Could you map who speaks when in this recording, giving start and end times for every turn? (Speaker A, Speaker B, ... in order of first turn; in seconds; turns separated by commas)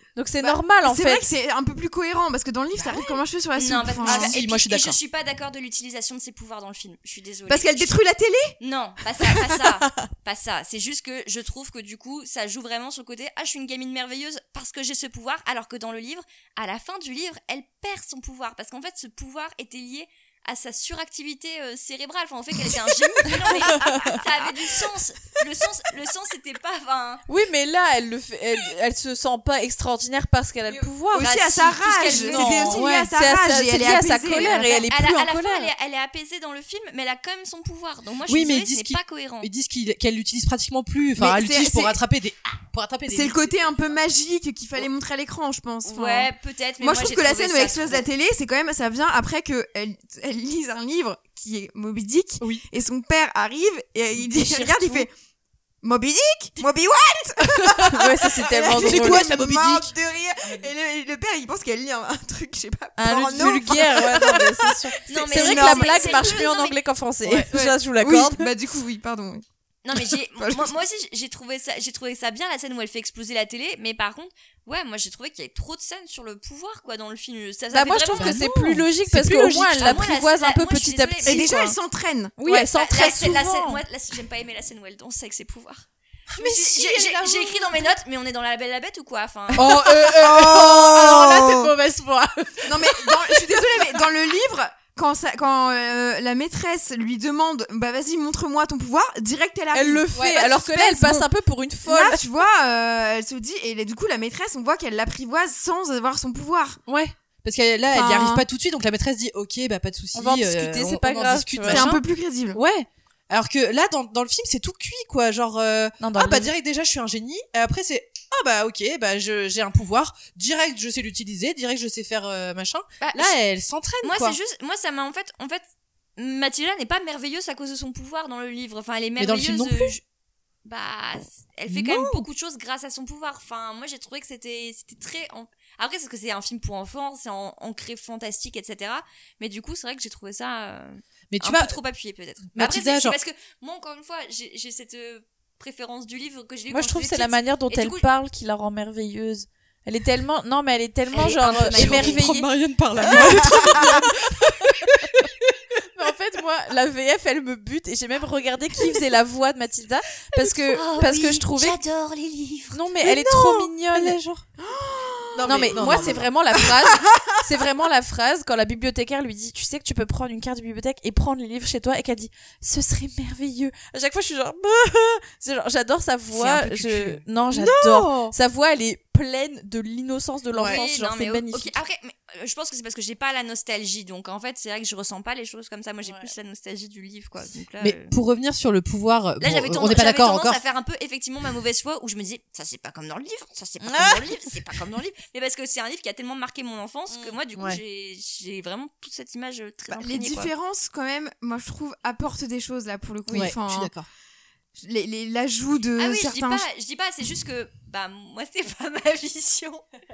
Speaker A: 0.1-1.3, Speaker B: 0.4-4.3, Speaker C: 2.8-3.1, Speaker D: 3.5-8.0, Speaker C: 4.0-5.0, Speaker B: 7.5-8.5, Speaker D: 8.6-27.2, Speaker A: 23.8-24.2, Speaker A: 27.3-31.3, Speaker B: 30.7-34.9, Speaker D: 31.2-32.8, Speaker A: 32.1-35.7, Speaker C: 32.8-33.1, Speaker D: 34.9-39.5, Speaker C: 38.3-43.5, Speaker B: 41.2-42.0, Speaker B: 43.1-55.1, Speaker D: 45.8-48.0, Speaker A: 54.3-55.0, Speaker B: 55.8-66.4, Speaker A: 57.8-59.3, Speaker C: 58.6-60.7, Speaker A: 63.0-68.5, Speaker D: 65.1-66.8, Speaker B: 67.3-69.4, Speaker D: 69.8-78.5, Speaker B: 70.0-70.7, Speaker A: 77.7-81.8, Speaker C: 78.2-80.0, Speaker D: 79.8-81.5, Speaker B: 81.2-82.3, Speaker A: 82.4-83.8, Speaker D: 82.5-85.9, Speaker C: 86.3-87.9, Speaker D: 86.4-89.8, Speaker C: 89.5-93.9, Speaker B: 90.2-91.7, Speaker B: 92.7-101.3, Speaker A: 99.7-102.2, Speaker B: 101.8-106.8, Speaker C: 106.9-112.0, Speaker B: 107.9-108.4, Speaker A: 110.1-111.9, Speaker B: 111.7-112.6, Speaker C: 112.5-124.4, Speaker A: 116.0-116.5, Speaker B: 123.0-123.3, Speaker D: 124.0-125.6, Speaker D: 126.2-130.0, Speaker C: 129.2-129.9, Speaker D: 130.6-148.0, Speaker C: 131.7-132.2, Speaker C: 141.3-141.8, Speaker C: 142.5-143.2, Speaker A: 146.7-152.5, Speaker D: 151.1-152.3, Speaker C: 151.6-155.5, Speaker A: 153.1-153.7, Speaker A: 155.9-161.8, Speaker D: 160.7-162.8, Speaker A: 162.7-164.2, Speaker C: 163.0-164.4, Speaker B: 164.6-166.2, Speaker C: 165.3-166.3, Speaker A: 165.4-181.8, Speaker C: 176.3-178.3, Speaker C: 180.6-180.8, Speaker D: 180.6-188.2, Speaker A: 186.0-186.3, Speaker C: 187.8-190.6, Speaker D: 189.4-200.5, Speaker A: 193.8-194.2, Speaker A: 197.1-197.3, Speaker B: 199.9-203.9, Speaker C: 203.3-204.1, Speaker B: 204.8-206.6, Speaker D: 206.0-209.8